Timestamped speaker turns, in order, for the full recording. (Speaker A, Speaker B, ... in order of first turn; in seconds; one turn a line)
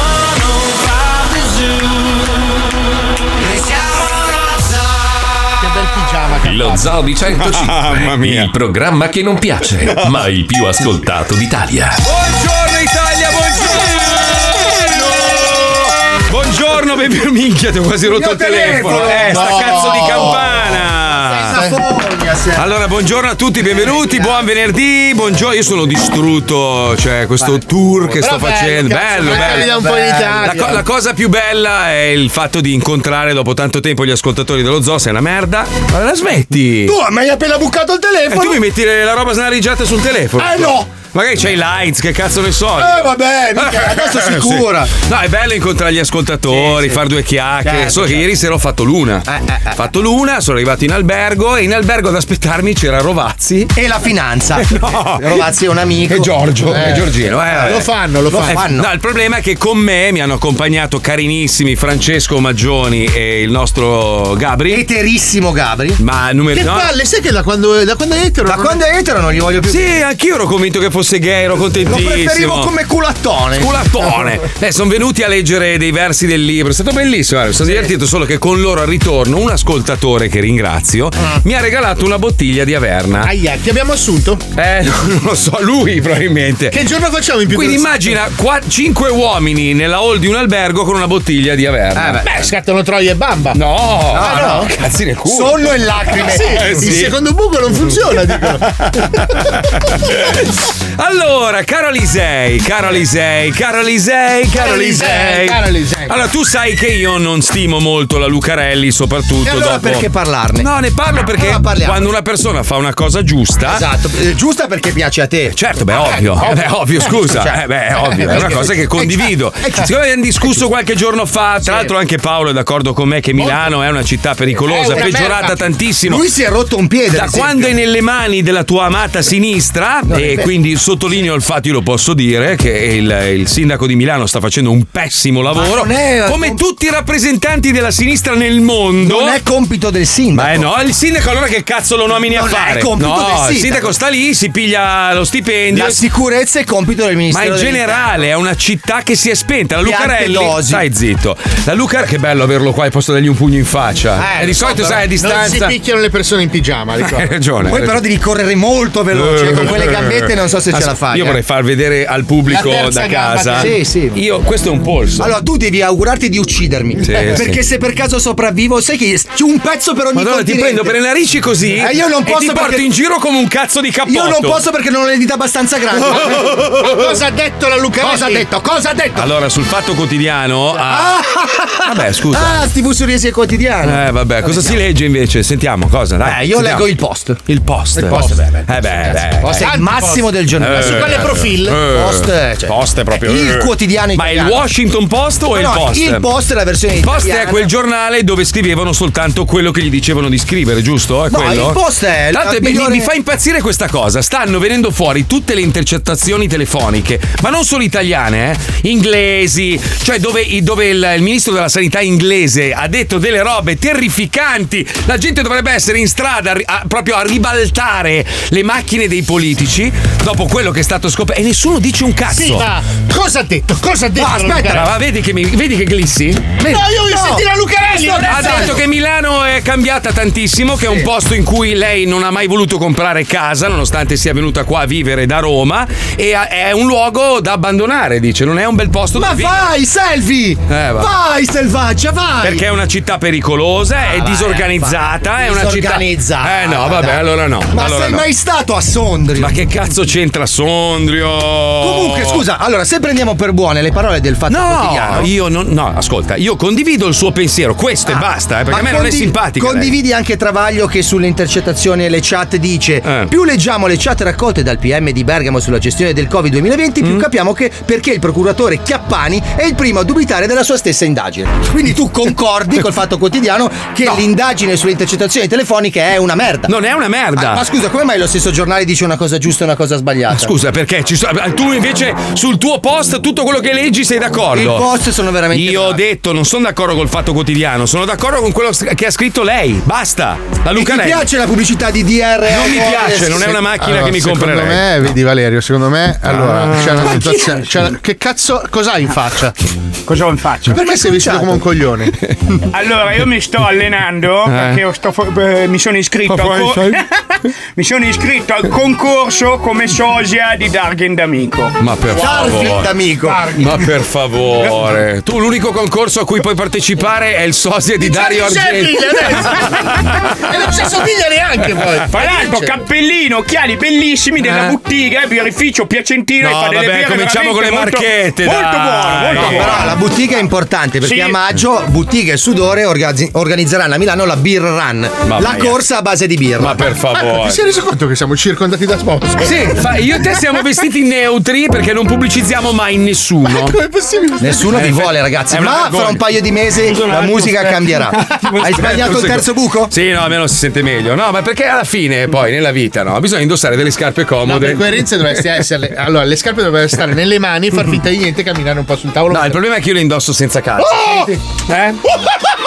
Speaker A: 5.6-6.9
Speaker B: 6.4-12.0
Speaker C: 7.4-8.5
Speaker C: 12.0-21.6
Speaker D: 18.1-20.4
Speaker A: 19.0-20.4
Speaker D: 21.1-22.7
Speaker A: 21.5-21.8
Speaker C: 22.6-37.0
Speaker D: 23.6-24.5
Speaker A: 28.2-30.8
Speaker D: 29.2-30.6
Speaker D: 36.8-38.6
Speaker C: 38.3-53.7
Speaker D: 40.4-40.9
Speaker D: 42.8-44.9
Speaker D: 46.5-47.0
Speaker D: 47.6-48.3
Speaker D: 49.2-49.9
Speaker D: 53.8-58.9
Speaker C: 54.6-55.5
Speaker C: 56.1-57.9
Speaker A: 56.7-57.1
Speaker A: 57.6-58.6
Speaker C: 58.5-64.8
Speaker D: 64.7-66.0
Speaker C: 66.0-66.9
Speaker A: 66.5-68.8
Speaker D: 68.5-69.9
Speaker C: 69.7-72.7
Speaker D: 71.9-73.8
Speaker C: 73.6-83.3
Speaker A: 83.2-84.4
Speaker C: 84.6-86.8
Speaker A: 86.7-88.1
Speaker C: 87.5-92.3
Speaker D: 92.0-92.2
Speaker A: 92.2-93.6
Speaker C: 93.5-97.2
Speaker D: 94.1-97.0
Speaker A: 94.2-94.6
Speaker A: 96.2-99.3
Speaker C: 98.3-110.1
Speaker A: 104.5-106.2
Speaker D: 109.4-110.7
Speaker C: 110.6-113.9
Speaker D: 111.2-112.0
Speaker D: 113.7-115.6
Speaker C: 115.5-126.2
Speaker A: 116.0-116.5
Speaker D: 116.4-119.9
Speaker A: 118.2-118.7
Speaker D: 121.6-121.9
Speaker D: 124.5-125.3
Speaker A: 124.7-125.6
Speaker D: 126.0-127.8
Speaker C: 127.1-139.4
Speaker D: 130.1-130.5
Speaker D: 135.5-136.6
Speaker D: 139.0-140.7
Speaker C: 140.3-146.0
Speaker D: 142.3-143.9
Speaker D: 145.7-148.1
Speaker C: 147.3-155.8
Speaker D: 149.8-150.8
Speaker D: 154.2-155.0
Speaker A: 155.0-157.3
Speaker C: 157.0-158.0
Speaker D: 157.7-161.4
Speaker C: 159.1-165.3
Speaker A: 162.5-163.7
Speaker D: 163.5-164.2
Speaker D: 165.2-170.9
Speaker C: 167.0-167.6
Speaker C: 170.2-174.6
Speaker D: 171.7-172.9
Speaker D: 174.1-177.2
Speaker A: 176.3-178.5
Speaker D: 178.0-179.3
Speaker C: 179.2-181.2
Speaker D: 180.8-184.8
Speaker C: 181.8-182.7
Speaker C: 183.8-186.9
Speaker D: 186.2-187.4
Speaker C: 187.5-189.7
Speaker D: 188.0-194.7
Speaker A: 188.1-188.4
Speaker A: 189.6-191.8
Speaker C: 190.6-196.3
Speaker D: 195.5-197.7
Speaker C: 197.0-201.8
Speaker D: 201.3-203.1
Speaker C: 202.3-222.7
Speaker A: 222.3-224.8
Speaker D: 224.2-224.9
Speaker C: 224.7-226.7
Speaker D: 226.7-228.8
Speaker A: 226.7-228.8
Speaker C: 228.3-239.7
Speaker D: 230.8-231.1
Speaker D: 239.1-242.6
Speaker C: 240.7-241.1
Speaker C: 242.4-248.3
Speaker D: 244.0-249.6
Speaker C: 249.4-252.4
Speaker D: 251.8-255.3
Speaker C: 254.5-259.9
Speaker D: 258.1-276.7
Speaker C: 263.1-263.3
Speaker C: 276.7-277.7
Speaker D: 277.4-280.5
Speaker C: 280.3-284.9
Speaker D: 284.5-286.0
Speaker C: 285.5-291.3
Speaker D: 290.8-293.6
Speaker C: 292.5-294.9
Speaker A: 293.8-299.6
Speaker C: 296.3-297.7
Speaker E: 300.1-300.7
Speaker A: 300.7-302.1
Speaker D: 300.7-301.7
Speaker E: 302.7-307.1
Speaker C: 304.4-304.8
Speaker C: 306.3-307.0
Speaker E: 307.8-311.8
Speaker C: 311.8-312.9
Speaker D: 312.1-313.5
Speaker A: 312.2-312.7
Speaker A: 313.2-313.8
Speaker C: 313.6-319.6
Speaker A: 318.0-322.8
Speaker E: 322.1-329.9
Speaker C: 324.4-324.8
Speaker C: 326.4-330.0
Speaker D: 329.3-336.9
Speaker E: 331.0-331.4
Speaker C: 335.3-335.8
Speaker C: 336.6-337.6
Speaker A: 337.2-340.4
Speaker C: 339.4-343.8
Speaker A: 343.5-344.8
Speaker D: 344.4-349.9
Speaker C: 344.6-346.2
Speaker C: 347.0-347.5
Speaker C: 348.1-355.4
Speaker A: 354.5-359.6
Speaker C: 359.3-362.0
Speaker A: 360.8-361.4